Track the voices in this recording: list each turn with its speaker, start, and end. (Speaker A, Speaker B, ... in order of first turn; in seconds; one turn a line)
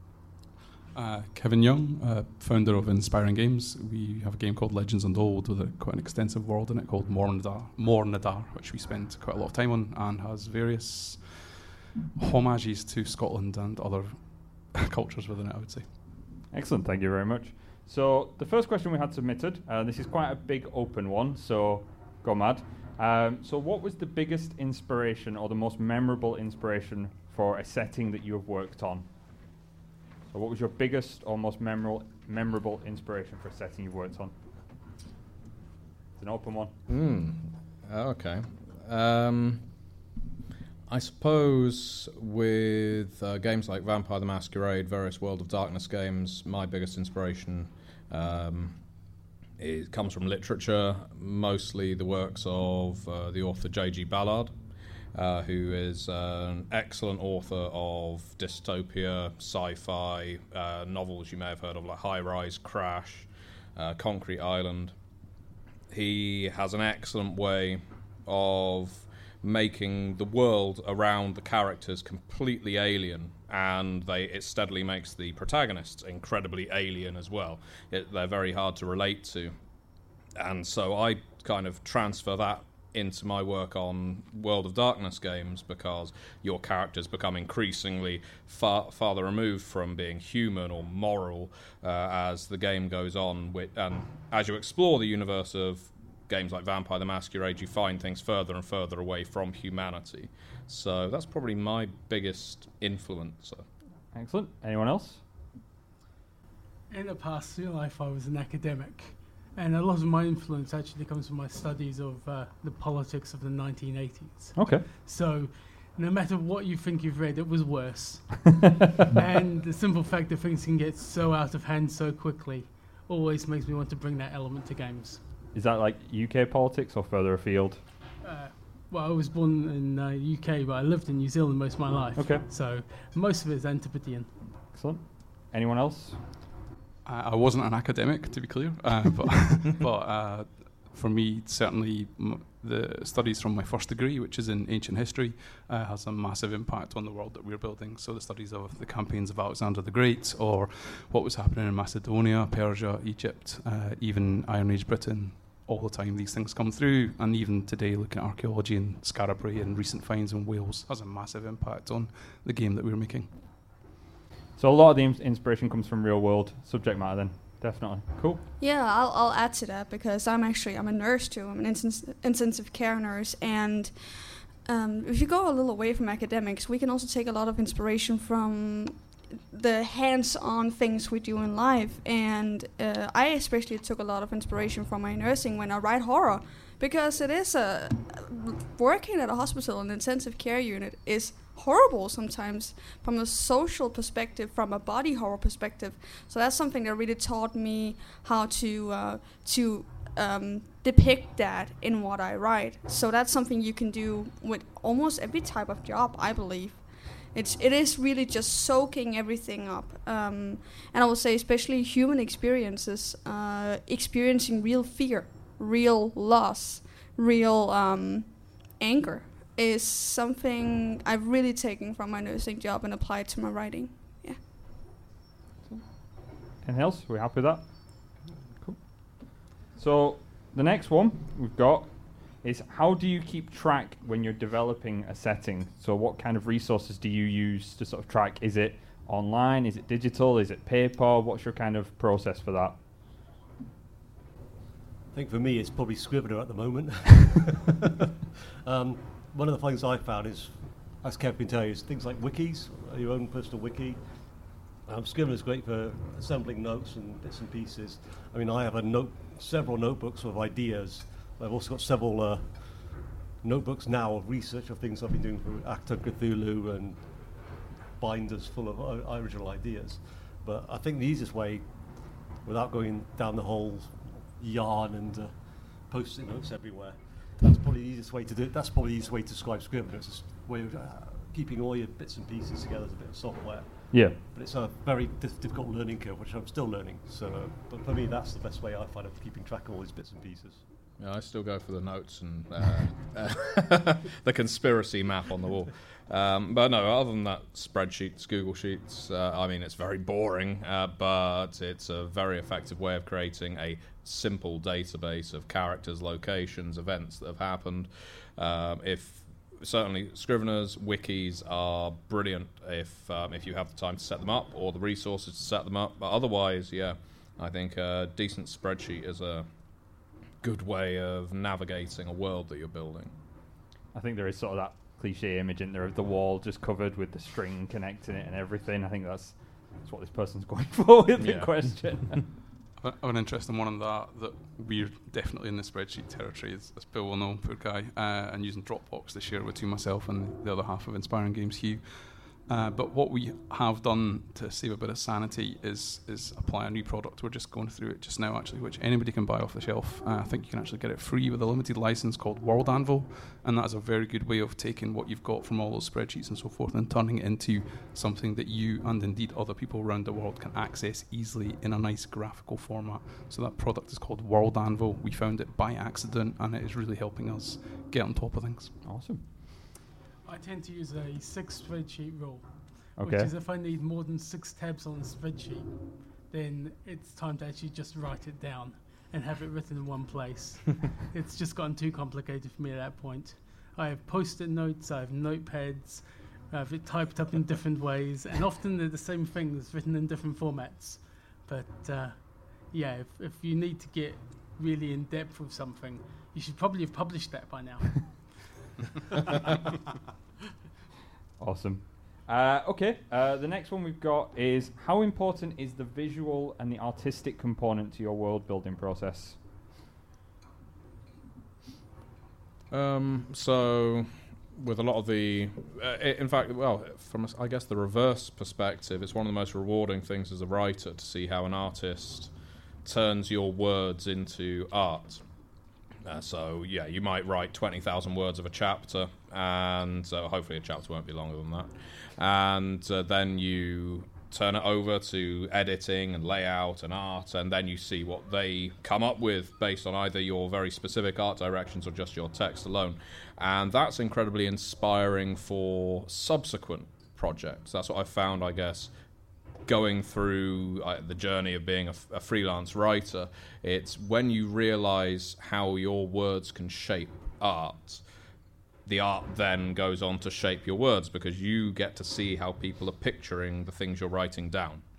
Speaker A: 0.9-11.6
Speaker A: 12.2-16.1
Speaker B: 16.4-29.1
Speaker B: 30.3-34.4
Speaker B: 36.2-36.7
Speaker C: 36.9-39.7
Speaker C: 40.9-48.8
Speaker C: 49.6-54.5
Speaker C: 55.1-64.9
Speaker C: 65.9-79.5
Speaker C: 80.4-103.7
Speaker B: 104.1-105.2
Speaker D: 106.9-118.5
Speaker B: 114.5-114.9
Speaker B: 118.4-118.7
Speaker D: 119.1-125.2
Speaker B: 125.5-127.8
Speaker D: 128.2-134.4
Speaker B: 132.2-132.5
Speaker B: 134.6-136.4
Speaker A: 137.1-163.3
Speaker B: 164.6-168.4
Speaker E: 168.6-224.4
Speaker B: 226.6-242.8
Speaker F: 245.1-247.6
Speaker F: 248.7-254.0
Speaker F: 254.8-290.6
Speaker B: 283.9-284.2
Speaker C: 291.0-319.5
Speaker C: 320.4-323.1
Speaker B: 323.9-332.3
Speaker C: 331.2-331.5
Speaker A: 332.8-368.8
Speaker B: 368.8-369.2
Speaker D: 370.2-398.5
Speaker B: 372.9-373.3
Speaker B: 401.4-409.4
Speaker C: 412.7-422.3
Speaker C: 422.9-425.2
Speaker C: 426.1-448.9
Speaker C: 449.7-458.0
Speaker C: 458.9-464.8